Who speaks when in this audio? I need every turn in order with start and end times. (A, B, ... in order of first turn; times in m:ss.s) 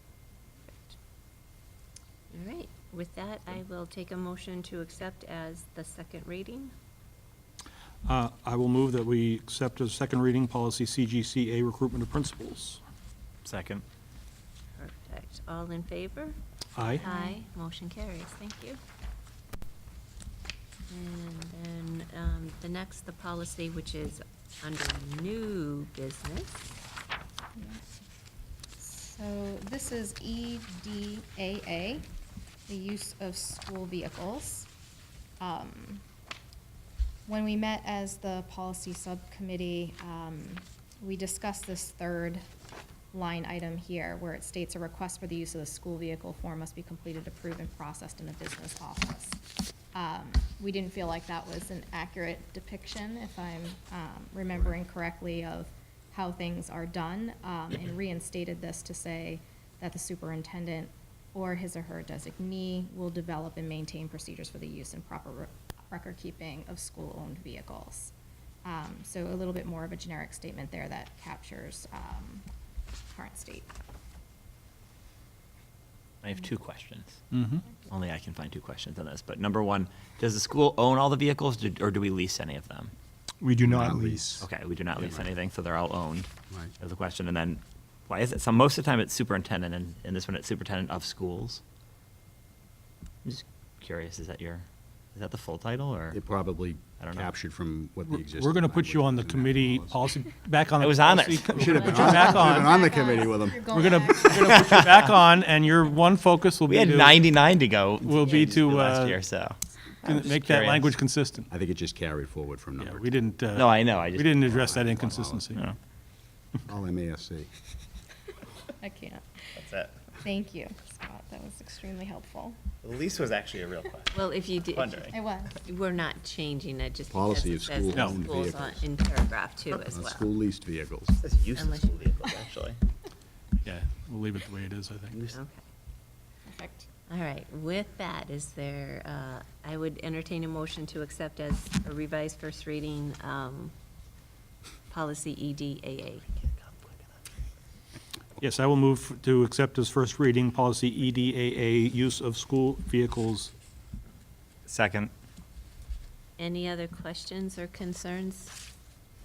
0:00.7-0:00.9 A
0:02.3-0:06.7 A
0:08.0-0:12.8 B
0:13.4-0:13.8 C
0:14.8-0:16.4 A
0:16.8-0:17.0 B
0:17.0-0:18.8 A
0:17.0-0:17.4 D
0:20.9-0:26.7 A
0:27.5-0:27.8 D
0:28.8-0:32.0 D
0:32.7-0:34.7 D
0:35.4-0:36.0 D
0:37.3-0:42.4 D
0:43.1-0:49.4 D
0:49.9-1:08.1 D
1:08.6-1:12.4 D
1:13.1-1:13.7 D
1:16.2-1:17.2 C
1:17.3-1:17.6 B
1:17.8-1:22.9 C
1:23.4-1:24.4 B
1:23.6-1:24.4 E
1:24.4-1:26.3 C
1:24.9-1:25.3 E
1:26.5-1:26.7 E
1:26.8-1:31.6 C
1:33.2-1:36.2 C
1:36.1-1:40.2 E
1:37.0-1:37.3 C
1:38.0-1:42.7 B
1:40.8-1:42.3 C
1:41.6-1:44.2 E
1:41.8-1:42.4 A
1:42.3-1:44.8 D
1:43.7-1:47.2 B
1:44.3-1:45.0 C
1:46.6-1:50.9 C
1:48.0-1:49.2 B
1:48.2-1:48.5 A
1:50.0-1:51.5 B
1:51.5-1:53.2 E
1:52.8-1:55.6 B
1:53.5-1:55.0 C
1:54.5-1:55.5 E
1:56.6-1:57.5 E
1:58.8-1:59.6 D
1:59.6-2:00.0 C
2:00.1-2:02.6 D
2:02.8-2:05.1 C
2:04.1-2:10.3 A
2:05.1-2:05.6 D
2:07.1-2:08.8 E
2:09.9-2:11.2 E
2:11.2-2:12.8 C
2:11.5-2:12.0 A
2:13.6-2:15.2 B
2:15.1-2:15.4 C
2:15.3-2:15.6 A
2:16.4-2:16.9 D
2:17.1-2:23.7 A
2:24.9-2:26.2 A
2:26.4-2:27.0 C
2:28.4-2:33.5 B
2:34.7-2:35.1 C
2:36.4-2:38.6 A